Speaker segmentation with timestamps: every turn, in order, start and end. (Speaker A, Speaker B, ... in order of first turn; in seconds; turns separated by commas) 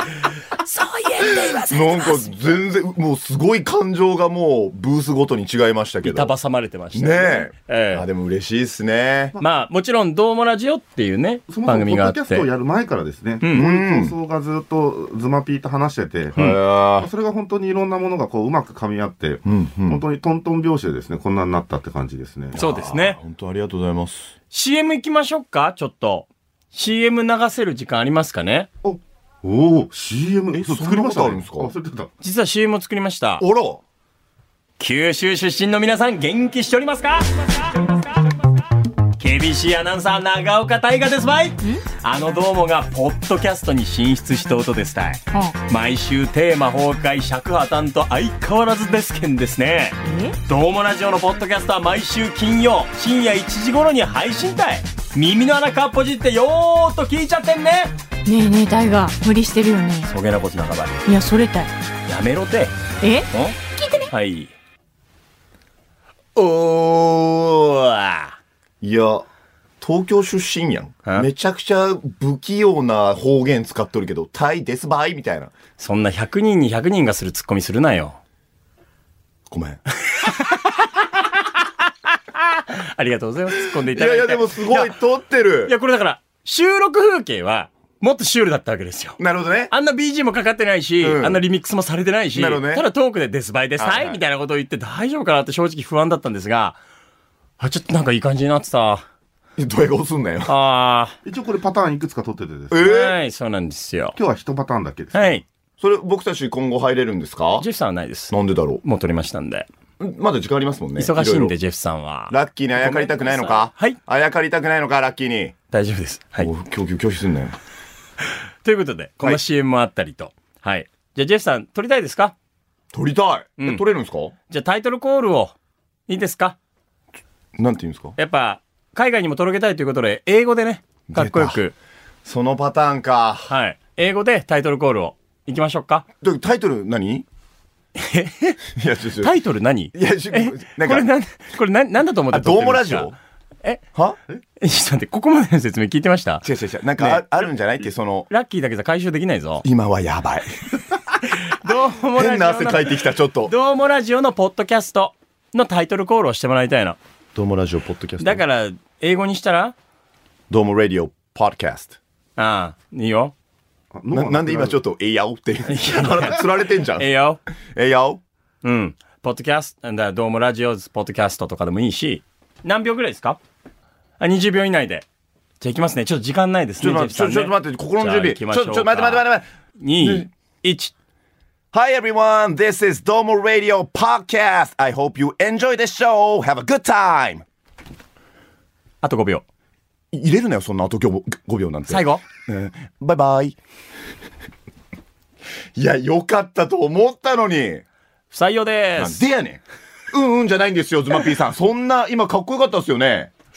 Speaker A: 0.6-2.6, Speaker B: 1.4-6.3, Speaker A: 6.0-8.1, Speaker B: 6.9-9.4, Speaker A: 9.4-12.5, Speaker C: 11.5-22.6, Speaker A: 13.4-13.7, Speaker B: 13.5-14.1, Speaker B: 16.4-17.1, Speaker B: 19.5-20.0, Speaker B: 22.5-24.3, Speaker A: 22.6-23.2, Speaker A: 24.5-28.7, Speaker C: 28.8-32.1, Speaker B: 30.5-31.7, Speaker A: 32.2-33.5, Speaker B: 33.4-33.8, Speaker A: 34.8-38.0, Speaker A: 39.2-57.9, Speaker D: 50.0-50.4, Speaker D: 58.3-60.1, Speaker A: 60.1-61.0, Speaker D: 61.1-61.7, Speaker A: 62.1-62.8, Speaker D: 63.0-64.1, Speaker A: 63.3-63.6, Speaker A: 64.1-64.5, Speaker A: 66.4-68.4, Speaker B: 68.8-69.2, Speaker B: 69.8-75.5, Speaker A: 75.8-78.2, Speaker B: 79.5-79.8, Speaker A: 80.1-81.6, Speaker A: 82.3-85.0, Speaker B: 83.8-85.7, Speaker A: 85.7-89.2, Speaker B: 89.2-89.7, Speaker A: 89.7-96.8, Speaker B: 91.0-91.4, Speaker B: 92.3-92.8, Speaker B: 93.8-94.2, Speaker A: 97.6-99.0, Speaker B: 99.6-100.5, Speaker A: 100.5-101.2, Speaker C: 101.2-102.9, Speaker B: 102.7-103.2, Speaker A: 102.8-104.2, Speaker C: 104.1-105.4, Speaker A: 105.1-105.5, Speaker B: 105.8-107.7, Speaker A: 107.6-109.7, Speaker B: 108.3-108.8, Speaker B: 110.0-111.5, Speaker A: 111.0-114.0, Speaker B: 112.3-115.5, Speaker A: 115.7-116.5, Speaker B: 116.4-117.6, Speaker A: 118.6-122.3, Speaker B: 122.9-124.3, Speaker A: 123.6-123.8, Speaker A: 124.5-125.5, Speaker A: 126.1-126.6, Speaker B: 127.6-128.2, Speaker A: 128.2-131.7, Speaker B: 131.1-131.6, Speaker B: 132.3-133.5, Speaker A: 133.5-136.1, Speaker B: 136.2-137.2, Speaker A: 138.0-138.6, Speaker B: 138.8-139.3, Speaker A: 139.2-143.1, Speaker B: 139.9-141.1, Speaker B: 142.3-143.1, Speaker B: 143.9-144.2, Speaker A: 144.6-146.5, Speaker B: 146.4-148.3, Speaker A: 147.0-147.3, Speaker A: 148.3-149.6, Speaker B: 149.6-150.5, Speaker A: 151.3-152.9, Speaker B: 152.1-153.5, Speaker A: 153.4-157.0, Speaker B: 157.3-158.4, Speaker A: 158.2-159.8, Speaker B: 160.5-162.0, Speaker A: 162.4-163.3, Speaker C: 163.9-164.8, Speaker B: 164.1-167.1, Speaker A: 165.7-166.4, Speaker A: 167.0-167.4, Speaker B: 167.8-168.2, Speaker A: 168.6-173.4, Speaker A: 174.2-175.1, Speaker A: 175.6-179.2, Speaker B: 176.8-179.5, Speaker A: 179.8-180.9, Speaker B: 180.0-180.3, Speaker B: 181.7-187.4, Speaker A: 189.0-189.4, Speaker B: 190.1-193.6, Speaker A: 191.9-192.2, Speaker B: 195.8-197.8, Speaker A: 198.3-199.2, Speaker B: 199.0-203.3